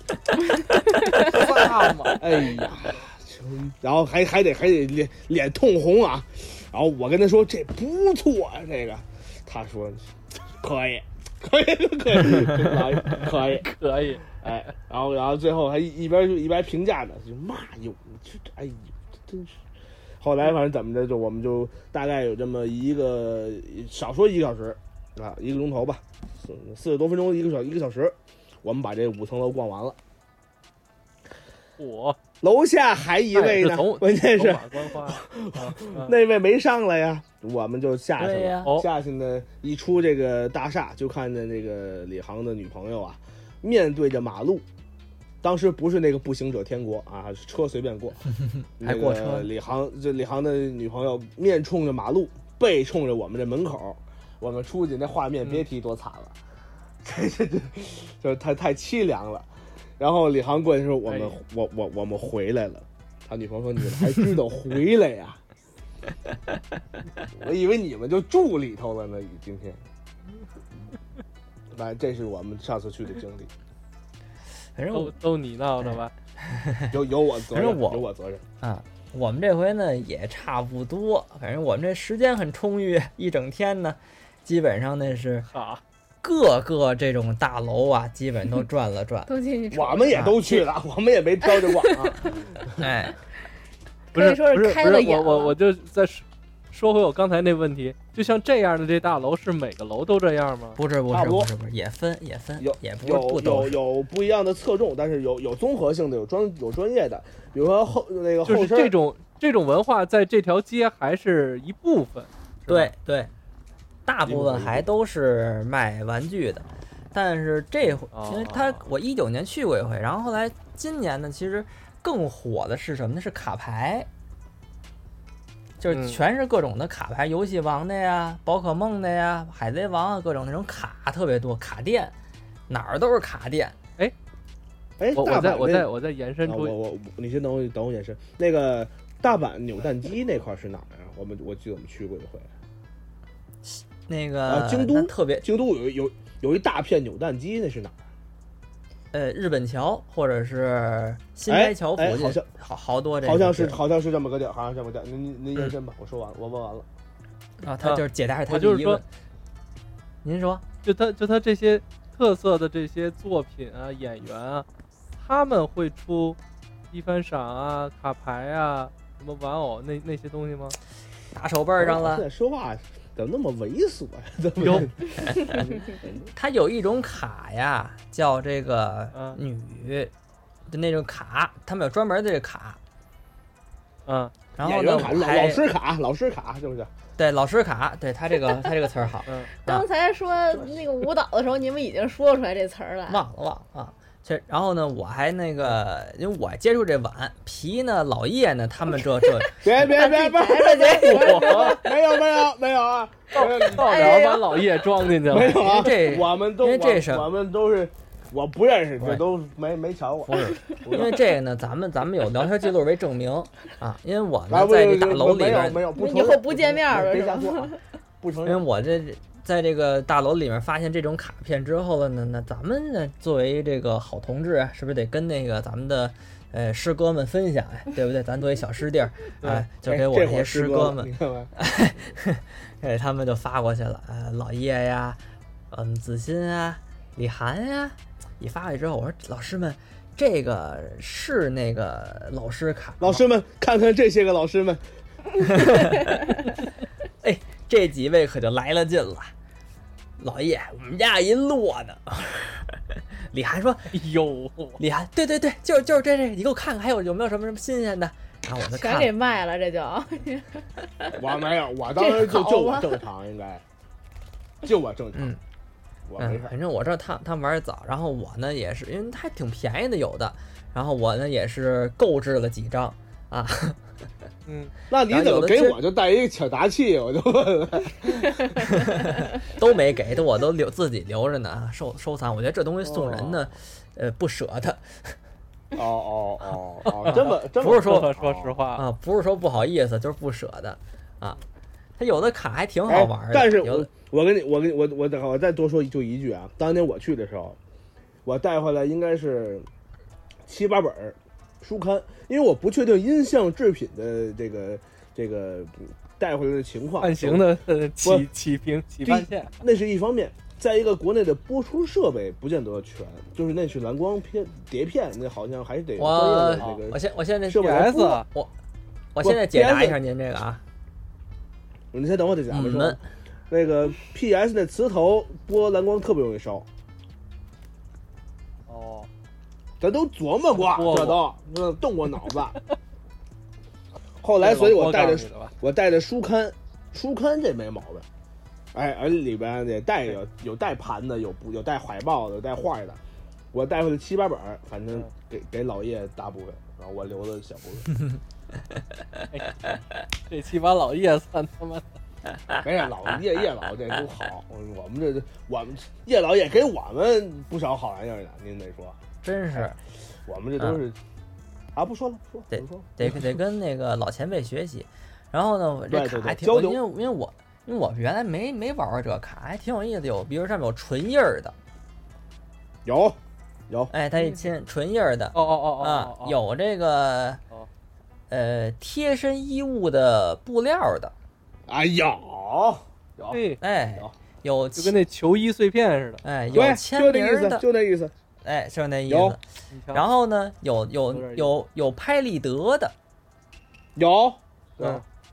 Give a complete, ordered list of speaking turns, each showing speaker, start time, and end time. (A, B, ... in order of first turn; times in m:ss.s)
0:01.2-0:13.7 A
0:01.2-0:02.2 B
0:13.1-0:14.4 B
0:14.4-0:19.6 A
0:20.2-0:30.0 A
0:31.8-0:32.2 B
0:32.4-0:44.7 A
0:33.3-0:36.2 B
0:38.2-0:38.7 C
0:38.6-0:38.9 B
0:45.4-0:56.4 A
0:48.8-0:49.5 C
0:57.0-1:05.4 A
1:01.1-1:01.4 B
1:07.3-1:09.8 A
1:11.7-1:13.5 A
1:14.8-1:15.1 C
1:14.9-1:16.1 B
1:16.5-1:16.9 C
1:16.9-1:18.4 A
1:17.5-1:18.0 C
1:18.6-1:25.5 C
1:25.4-1:25.8 B
1:26.2-1:29.3 C
1:29.3-1:30.6 D
1:29.7-1:32.8 A
1:30.1-1:30.4 C
1:31.5-1:32.2 D
1:32.8-1:33.2 C
1:34.1-1:35.6 D
1:34.1-1:40.8 B
1:40.8-1:43.8 C
1:41.1-1:41.5 A
1:42.6-1:48.9 A
1:48.4-1:52.9 B
1:52.7-1:53.3 C
1:54.1-2:04.1 C
1:54.2-1:54.9 A
1:58.1-1:58.8 B
2:05.8-2:12.1 C
2:05.9-2:06.2 B
2:12.7-2:13.8 C
2:15.0-2:15.9 A
2:15.2-2:16.7 B
2:16.4-2:22.5 A
2:23.6-2:25.4 C
2:24.5-2:28.0 A
2:29.1-2:33.8 C
2:31.5-2:32.5 A
2:33.2-2:36.9 A
2:37.6-2:39.0 C
2:37.8-2:39.0 B
2:40.2-2:40.6 C
2:40.8-2:44.7 B
2:45.2-2:46.4 B
2:46.9-2:50.8 B
2:51.3-2:52.3 C
2:51.8-2:56.3 A
2:54.6-2:54.9 B
2:56.4-3:00.1 C
2:59.1-2:59.4 B
3:00.7-3:02.8 C
3:04.1-3:04.3 B
3:04.6-3:05.6 C
3:04.6-3:06.9 A
3:07.2-3:09.9 C
3:09.6-3:13.2 D
3:13.1-3:19.6 C
3:19.4-3:22.2 D
3:19.6-3:24.2 A
3:21.0-3:21.8 B
3:23.3-3:26.2 B
3:23.6-3:24.6 D
3:25.3-3:31.1 A
3:25.4-3:27.3 C
3:30.3-3:35.9 C
3:34.5-3:38.6 A
3:35.9-3:37.8 D
3:38.4-3:55.2 C
3:49.4-3:49.7 B
3:49.8-3:51.5 A
3:55.7-4:03.2 C
4:03.0-4:04.8 A
4:05.4-4:06.4 C
4:07.2-4:09.3 C
4:10.2-4:13.9 C
4:13.9-4:14.8 B
4:14.8-4:19.2 C
4:18.7-4:21.2 D
4:21.2-4:23.6 A
4:22.0-4:23.0 D
4:24.6-4:25.3 A
4:25.2-4:25.4 C
4:26.1-4:26.5 A
4:26.2-4:33.8 C
4:34.5-4:34.7 B
4:34.9-4:38.7 A
4:35.1-4:35.8 C
4:38.6-4:45.2 C
4:42.8-4:43.4 A
4:45.8-4:48.6 A
4:46.9-4:48.8 B
4:47.0-4:48.1 C
4:48.8-4:51.4 C
4:52.0-4:53.9 C
4:52.9-4:57.6 A
4:58.2-4:59.7 A
5:00.4-5:07.5 A
5:07.0-5:09.6 B
5:09.0-5:17.9 A
5:16.0-5:18.5 C
5:17.5-5:18.3 B
5:19.2-5:20.6 C
5:19.2-5:20.0 A
5:21.9-5:26.7 A
5:22.5-5:23.0 C
5:28.7-5:29.1 B
5:29.8-5:32.6 A
5:30.6-5:31.2 B
5:34.2-5:38.1 A
5:34.4-5:35.5 B
5:38.7-5:43.0 A
5:43.5-5:47.9 A
5:49.3-5:49.6 B
5:50.2-5:51.8 B
5:52.6-5:59.0 A
5:59.2-5:59.8 C
6:00.3-6:01.0 A
6:01.8-6:03.4 A
6:02.5-6:11.6 C
6:05.9-6:06.8 A
6:12.8-6:13.2 A
6:13.9-6:17.4 C
6:14.2-6:14.4 B
6:15.3-6:16.4 B
6:18.3-6:21.1 C
6:21.7-6:23.4 A
6:23.3-6:23.6 B
6:23.6-6:25.0 C
6:24.8-6:26.2 B
6:26.2-6:27.6 C
6:26.5-6:28.1 A
6:28.4-6:29.4 C
6:29.1-6:29.4 A
6:29.7-6:30.1 B
6:29.9-6:33.0 C
6:31.1-6:31.6 B
6:34.0-6:35.0 A